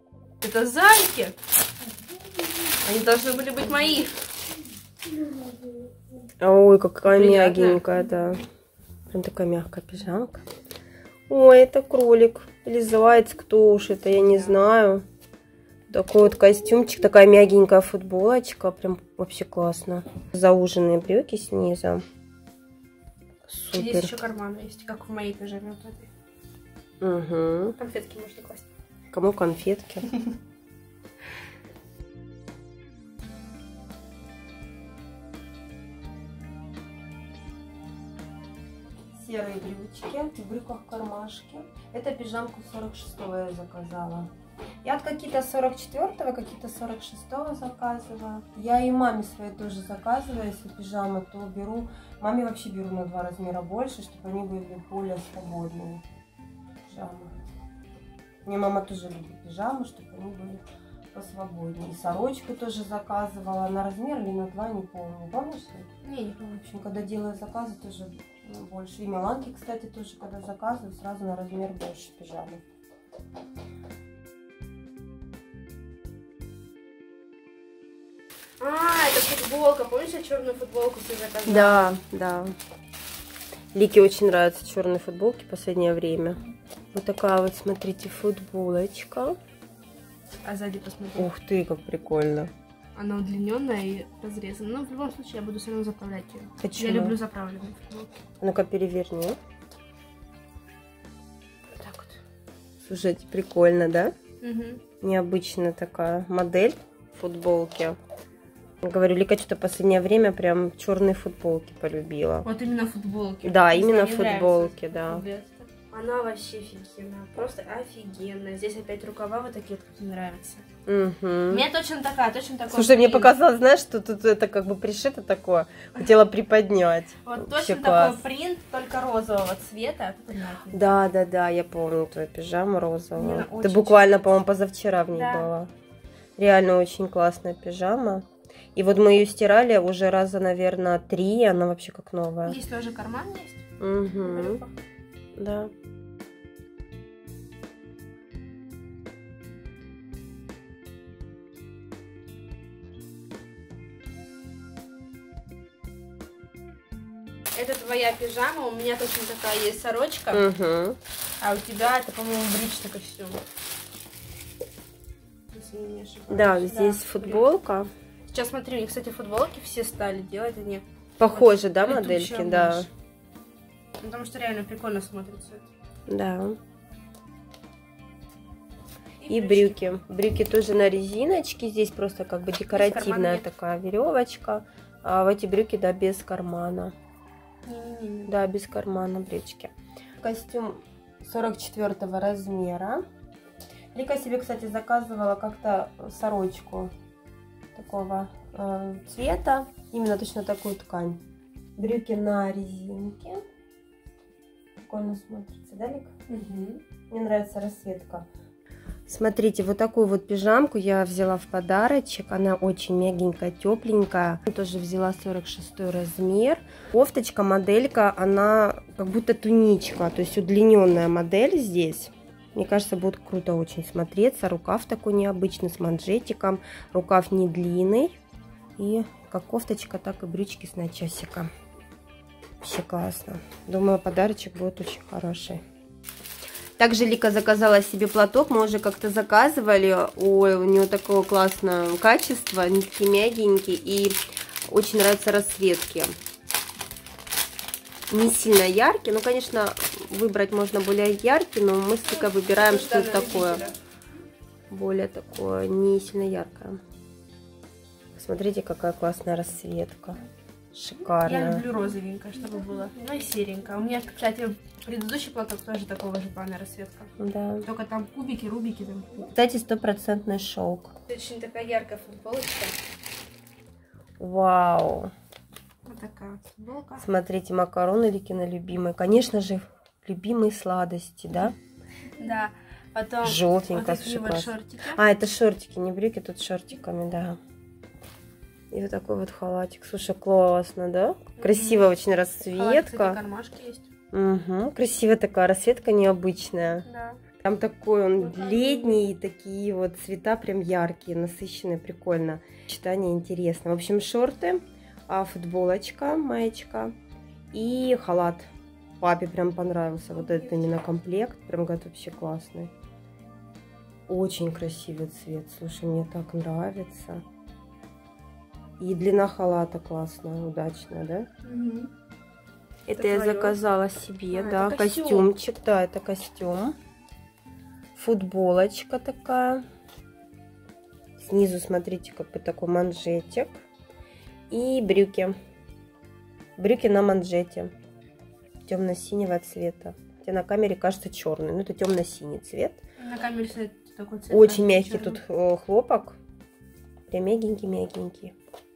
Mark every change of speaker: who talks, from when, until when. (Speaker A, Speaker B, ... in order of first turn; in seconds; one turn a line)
Speaker A: 0.4-1.4
Speaker A: 2.8-4.2
Speaker B: 6.4-8.4
Speaker A: 7.0-7.9
Speaker B: 9.1-10.5
Speaker B: 11.3-15.0
Speaker A: 14.1-14.6
Speaker B: 15.9-22.0
Speaker B: 23.5-24.1
Speaker A: 23.7-26.1
Speaker B: 27.0-27.8
Speaker A: 27.8-28.7
Speaker B: 29.1-30.1
Speaker B: 39.1-44.3
Speaker B: 44.8-56.0
Speaker B: 56.9-57.3
Speaker B: 58.5-60.6
Speaker B: 61.1-65.9
Speaker A: 66.0-66.7
Speaker B: 66.6-72.6
Speaker A: 78.6-81.9
Speaker B: 81.5-82.5
Speaker B: 83.7-86.4
Speaker B: 86.9-89.4
Speaker A: 90.4-91.3
Speaker B: 91.2-92.5
Speaker A: 93.0-98.1
Speaker B: 96.6-97.2
Speaker B: 98.4-99.4
Speaker A: 101.8-102.2
Speaker B: 102.8-104.1
Speaker A: 104.4-104.8
Speaker B: 105.0-108.0
Speaker B: 108.8-112.5
Speaker A: 112.5-120.7
Speaker B: 113.5-115.2
Speaker B: 120.9-121.7
Speaker A: 121.5-123.3
Speaker B: 122.7-128.2
Speaker A: 127.2-130.9
Speaker B: 130.7-135.7
Speaker A: 133.2-134.2
Speaker A: 135.1-135.5
Speaker B: 136.4-142.6
Speaker A: 142.5-143.7
Speaker B: 143.8-144.6
Speaker A: 144.2-144.7
Speaker B: 145.4-145.7
Speaker A: 157.5-160.5
Speaker B: 160.3-161.0
Speaker A: 161.4-163.4
Speaker A: 165.5-167.5
Speaker B: 166.3-167.9
Speaker A: 168.3-172.9
Speaker B: 171.2-172.9
Speaker A: 174.0-175.7
Speaker B: 176.1-176.6
Speaker A: 179.2-179.8
Speaker B: 179.3-186.9
Speaker A: 182.7-183.4
Speaker A: 187.7-188.3
Speaker B: 188.3-193.0
Speaker B: 193.9-196.9
Speaker B: 197.8-201.2
Speaker B: 201.8-203.4
Speaker B: 204.8-206.1
Speaker A: 206.3-206.8
Speaker B: 207.1-208.3
Speaker B: 209.1-228.2
Speaker B: 228.8-231.5
Speaker B: 232.6-235.6
Speaker B: 236.8-244.2
Speaker B: 244.7-246.1
Speaker B: 248.1-253.6
Speaker A: 252.0-253.8
Speaker B: 254.7-256.8
Speaker B: 258.1-260.2
Speaker B: 260.7-261.6
Speaker A: 261.2-267.1
Speaker B: 267.2-267.7
Speaker A: 267.6-269.3
Speaker B: 269.3-270.9
Speaker A: 271.1-272.8
Speaker B: 274.2-275.1
Speaker A: 275.9-277.1
Speaker B: 277.0-281.6
Speaker A: 282.2-285.0
Speaker B: 283.2-287.4
Speaker B: 288.7-293.2
Speaker A: 291.4-291.9
Speaker A: 292.4-293.9
Speaker B: 294.1-296.9
Speaker A: 296.8-297.2
Speaker B: 297.4-306.9
Speaker A: 298.2-299.1
Speaker B: 307.5-308.5
Speaker B: 309.0-312.7
Speaker A: 310.1-310.8
Speaker B: 314.1-317.2
Speaker B: 318.8-321.3
Speaker A: 321.4-321.9
Speaker B: 322.9-326.8
Speaker A: 322.9-323.6
Speaker A: 324.3-325.3
Speaker B: 327.9-329.6
Speaker B: 331.2-333.6
Speaker B: 334.5-335.4
Speaker B: 336.6-337.7
Speaker B: 338.6-342.8
Speaker A: 343.0-345.2
Speaker B: 344.3-346.2
Speaker B: 347.1-348.3